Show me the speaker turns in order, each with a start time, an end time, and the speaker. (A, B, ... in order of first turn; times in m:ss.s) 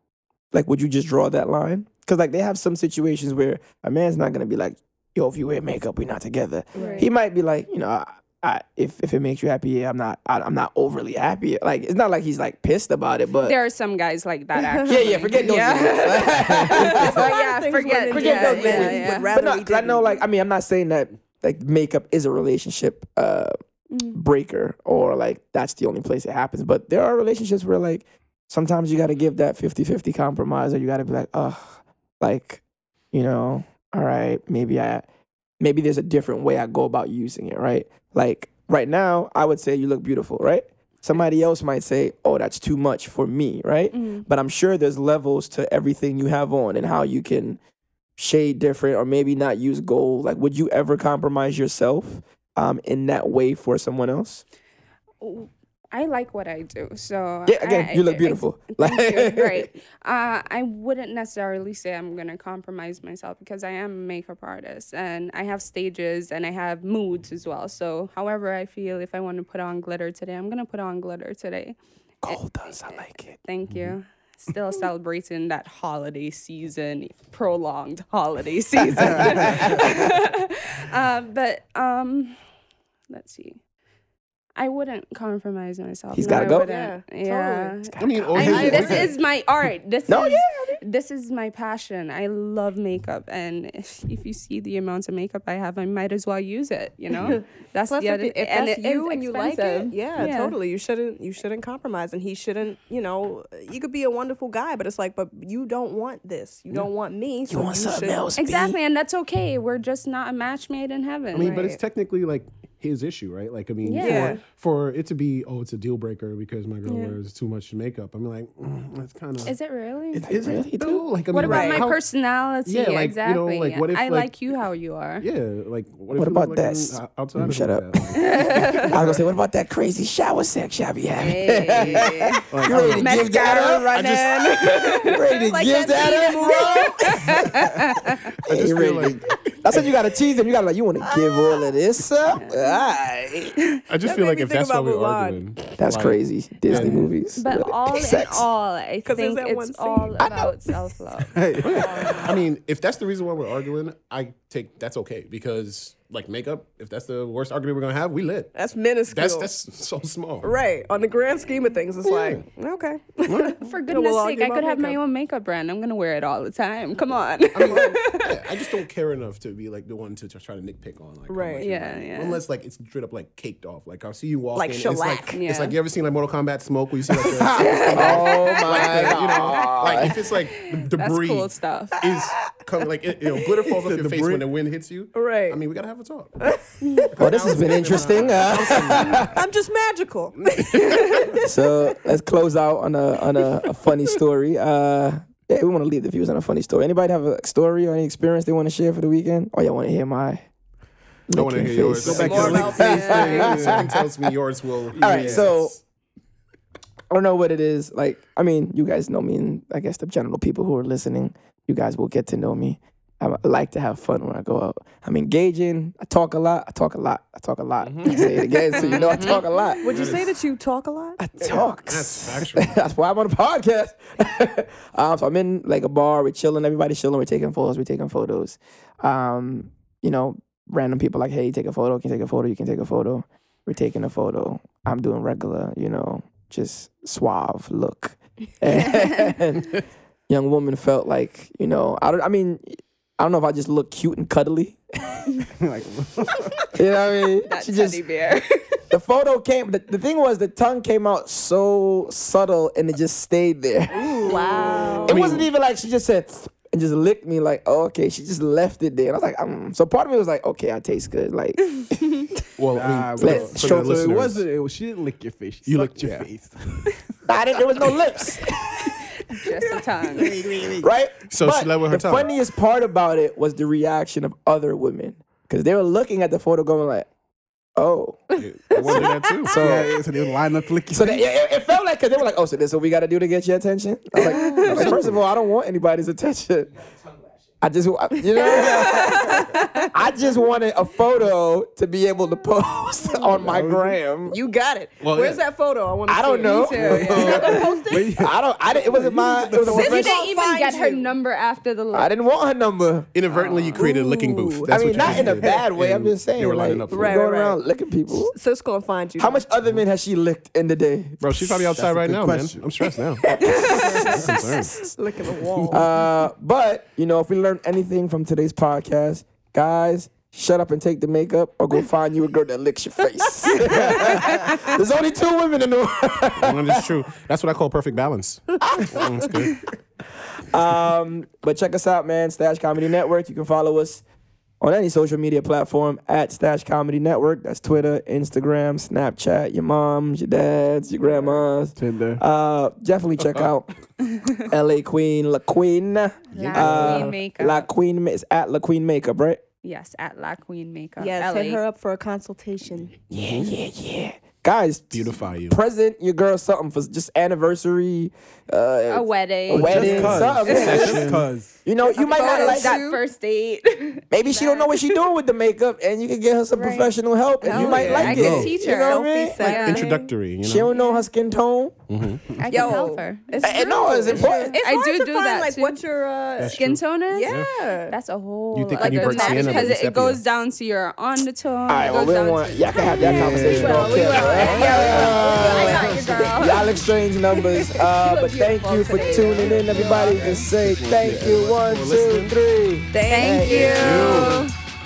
0:00.5-0:13.6 A
0:06.8-0:07.1 B
0:06.8-0:07.1 C
0:13.4-0:19.3 C
0:14.6-0:15.2 B
0:14.8-0:17.3 A
0:16.7-0:20.2 B
0:18.1-0:23.5 A
0:24.1-0:35.0 A
0:35.6-0:47.6 A
0:43.9-0:44.3 C
0:48.2-0:54.4 A
0:55.2-1:22.4 C
0:57.5-0:59.7 A
1:12.2-1:13.3 A
1:18.9-1:20.0 A
1:19.0-1:19.6 D
1:23.1-1:23.6 C
1:24.6-1:40.6 C
1:26.1-1:26.7 A
1:26.3-1:27.8 B
1:28.0-1:29.1 A
1:28.0-1:29.2 E
1:28.5-1:28.9 B
1:30.1-1:30.8 A
1:37.1-1:37.4 E
1:37.3-1:48.3 B
1:47.5-1:48.8 A
1:48.4-1:51.6 C
1:51.3-1:59.5 E
1:51.4-1:51.8 B
1:53.8-1:54.4 C
1:54.0-1:54.4 B
1:56.9-1:57.2 C
1:59.4-2:00.4 C
2:00.1-2:01.0 A
2:00.2-2:02.0 E
2:01.3-2:05.2 C
2:01.4-2:01.9 B
2:02.6-2:04.4 E
2:05.2-2:09.2 E
2:06.2-2:17.6 A
2:08.2-2:08.9 C
2:11.2-2:15.2 C
2:11.7-2:14.7 E
2:15.1-2:17.2 B
2:15.9-2:18.4 C
2:18.4-2:23.6 A
2:18.4-2:19.9 E
2:21.1-2:21.6 B
2:22.3-2:22.8 C
2:23.9-2:27.1 E
2:24.0-2:25.5 B
2:25.8-2:28.5 A
2:27.4-2:32.3 C
2:29.0-2:30.2 B
2:30.2-2:30.5 A
2:31.3-2:32.3 D
2:31.6-2:38.5 E
2:38.5-2:39.5 B
2:39.1-2:40.5 E
2:40.4-2:45.0 B
2:42.0-2:42.4 E
2:43.2-2:43.6 E
2:43.6-2:48.6 C
2:47.5-3:06.5 E
2:47.6-2:48.0 B
2:51.3-2:51.6 B
2:51.6-2:52.4 C
2:54.6-2:55.4 B
2:55.3-2:55.8 C
2:57.6-3:02.0 C
2:57.9-3:00.2 A
3:03.8-3:04.5 D
3:05.2-3:05.6 B
3:06.4-3:07.4 B
3:07.1-3:09.4 E
3:07.2-3:09.4 A
3:08.6-3:11.5 B
3:10.4-3:11.4 E
3:11.4-3:20.4 A
3:21.3-3:23.9 A
3:21.3-3:25.8 E
3:22.0-3:23.9 D
3:22.1-3:23.8 B
3:25.0-3:25.5 D
3:25.0-3:25.8 A
3:27.1-3:39.9 A
3:37.8-3:40.4 E
3:38.8-3:39.4 C
3:38.9-3:39.3 B
3:39.8-3:41.2 B
3:41.2-4:05.2 A
3:41.4-3:42.8 E
4:05.6-4:06.6 D
4:06.7-4:08.0 A
4:07.5-4:08.8 C
4:08.9-4:14.5 A
4:14.0-4:15.1 D
4:14.1-4:15.2 B
4:15.1-4:22.3 A
4:15.1-4:15.5 E
4:22.6-4:24.4 E
4:22.7-4:27.0 D
4:23.2-4:24.1 A
4:25.7-4:26.3 E
4:27.3-4:28.9 A
4:29.2-4:30.4 C
4:30.2-4:30.8 B
4:30.5-4:30.8 D
4:30.8-4:37.1 A
4:31.3-4:32.3 E
4:37.8-4:39.9 A
4:38.3-4:39.6 B
4:38.4-4:39.9 E
4:39.5-4:41.3 D
4:40.9-4:46.8 A
4:44.2-4:45.0 B
4:44.2-4:44.6 C
4:44.7-4:45.2 E
4:47.6-4:54.4 A
4:48.3-4:49.9 B
4:48.4-4:49.8 C
4:53.3-4:54.0 D
4:54.3-4:58.1 B
4:55.0-4:55.4 E
4:56.1-4:57.6 A
4:56.4-4:58.2 C
4:56.8-4:59.9 D
4:58.2-5:00.2 A
4:59.6-5:01.1 B
4:59.7-5:02.1 C
5:01.9-5:03.1 A
5:03.1-5:07.3 E
5:03.4-5:03.8 C
5:03.8-5:05.6 B
5:04.7-5:08.4 A
5:06.9-5:07.6 B
5:08.3-5:09.4 B
5:09.2-5:11.8 A
5:11.2-5:13.3 E
5:11.8-5:12.8 D
5:13.2-5:14.3 A
5:13.5-5:15.9 B
5:14.0-5:14.9 E
5:15.4-5:15.8 E
5:15.7-5:26.8 A
5:24.3-5:24.6 C
5:26.4-5:29.6 E
5:28.6-5:29.3 A
5:30.4-5:34.0 A
5:34.6-5:43.7 A
5:41.8-5:42.2 D
5:43.2-5:43.5 E
5:44.4-5:49.4 A
5:46.3-5:47.7 C
5:46.6-5:47.1 D
5:49.6-5:51.6 C
5:51.0-5:53.0 B
5:53.1-6:02.8 A
5:53.1-5:53.5 E
5:54.9-5:55.6 E
5:58.9-6:00.9 C
5:59.5-6:01.6 D
5:59.9-6:01.3 E
6:01.8-6:03.0 B
6:02.1-6:04.7 C
6:04.1-6:09.6 A
6:06.6-6:06.9 C
6:07.4-6:10.1 B
6:07.5-6:09.9 C
6:07.5-6:08.6 D
6:09.4-6:10.7 E
6:10.4-6:11.8 A
6:10.7-6:11.0 C
6:11.9-6:12.3 E
6:12.4-6:15.8 C
6:12.5-6:18.0 B
6:13.4-6:14.6 A
6:16.4-6:17.5 E
6:16.6-6:26.8 C
6:18.5-6:20.2 E
6:18.8-6:19.7 B
6:21.7-6:34.2 A
6:22.8-6:26.6 B
6:23.0-6:25.1 D
6:27.4-6:30.5 C
6:28.8-6:30.0 B
6:30.4-6:32.4 E
6:32.9-6:34.5 B
6:33.1-6:34.5 C
6:33.5-6:34.4 E